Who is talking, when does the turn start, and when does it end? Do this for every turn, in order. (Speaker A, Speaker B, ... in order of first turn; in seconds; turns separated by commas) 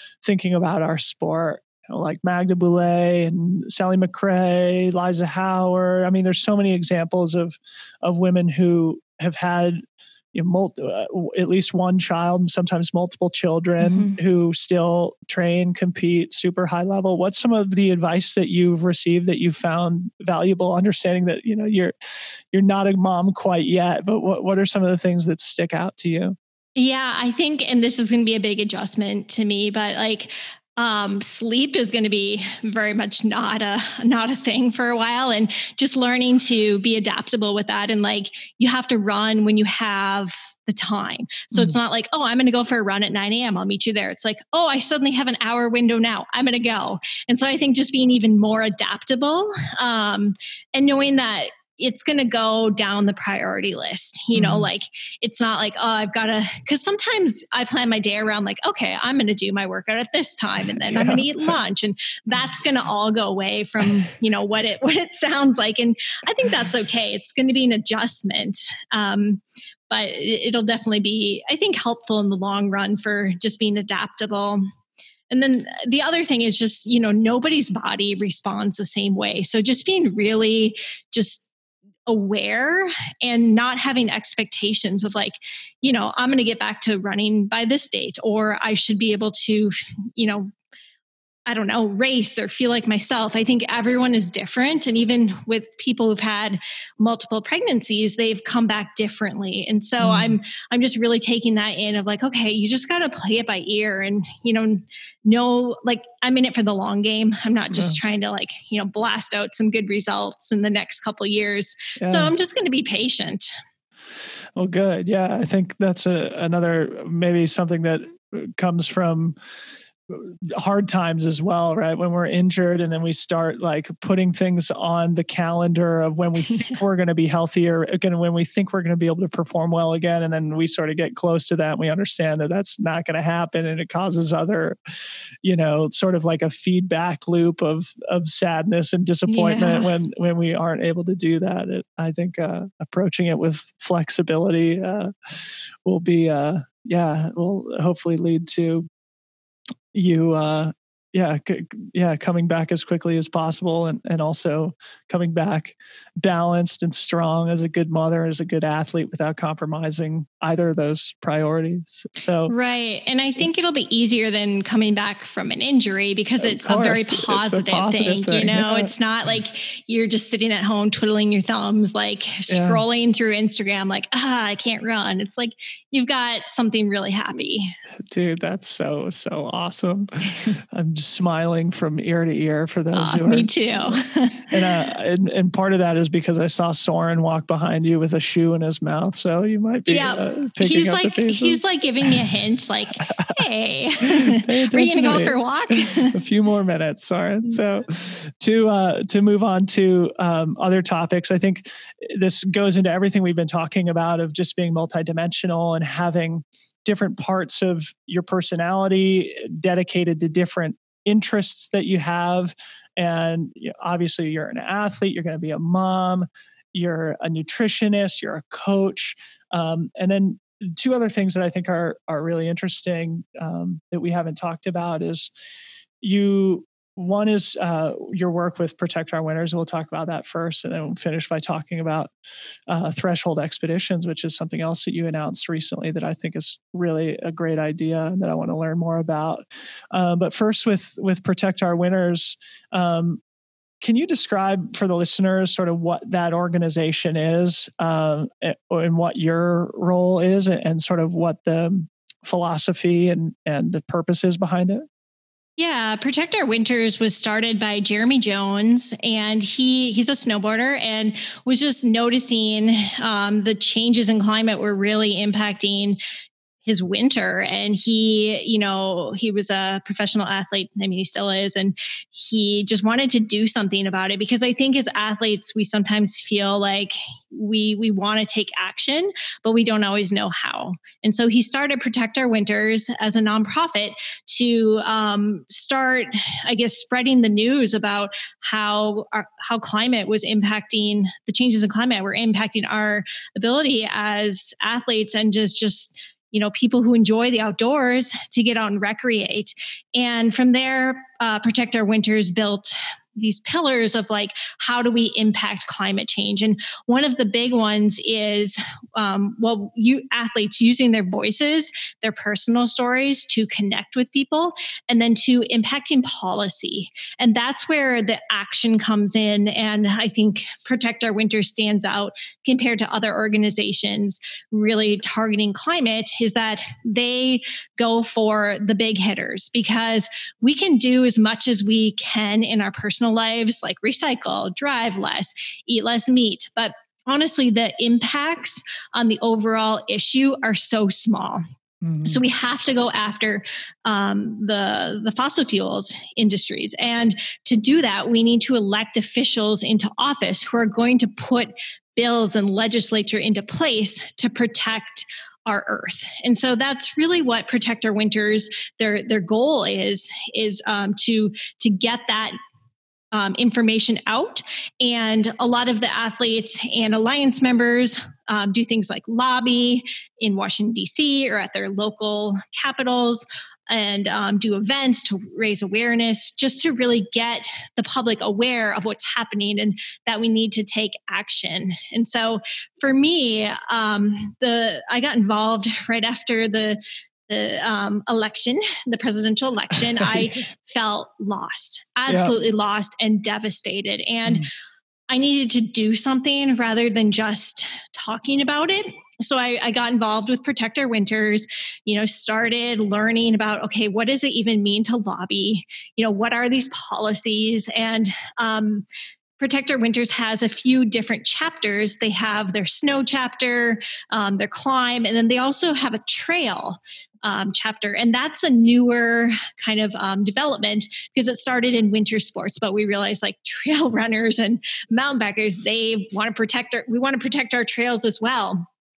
Speaker A: 0.2-9.8, Speaker A: 10.3-21.9, Speaker B: 13.8-14.2, Speaker A: 22.5-26.4, Speaker B: 26.8-74.6, Speaker A: 54.3-54.7, Speaker A: 60.9-61.2, Speaker B: 75.3-81.5, Speaker B: 82.0-90.5, Speaker B: 91.5-113.5, Speaker A: 100.0-100.4, Speaker A: 107.7-108.0, Speaker A: 112.0-112.3, Speaker A: 114.5-119.4, Speaker A: 120.1-134.8, Speaker A: 135.4-148.8, Speaker B: 139.3-139.9, Speaker A: 149.9-162.5, Speaker B: 162.5-177.7, Speaker A: 166.4-168.9, Speaker A: 172.5-172.8, Speaker A: 178.1-191.6, Speaker B: 182.9-184.7, Speaker B: 189.9-196.1, Speaker A: 194.0-225.3, Speaker A: 226.0-232.1, Speaker A: 232.7-243.2, Speaker A: 243.8-254.8, Speaker B: 255.6-266.0, Speaker B: 266.6-341.4, Speaker A: 341.8-342.2, Speaker B: 342.0-362.4, Speaker B: 363.1-394.5, Speaker A: 389.9-390.2, Speaker A: 392.1-392.3, Speaker B: 395.1-408.9, Speaker B: 409.4-428.6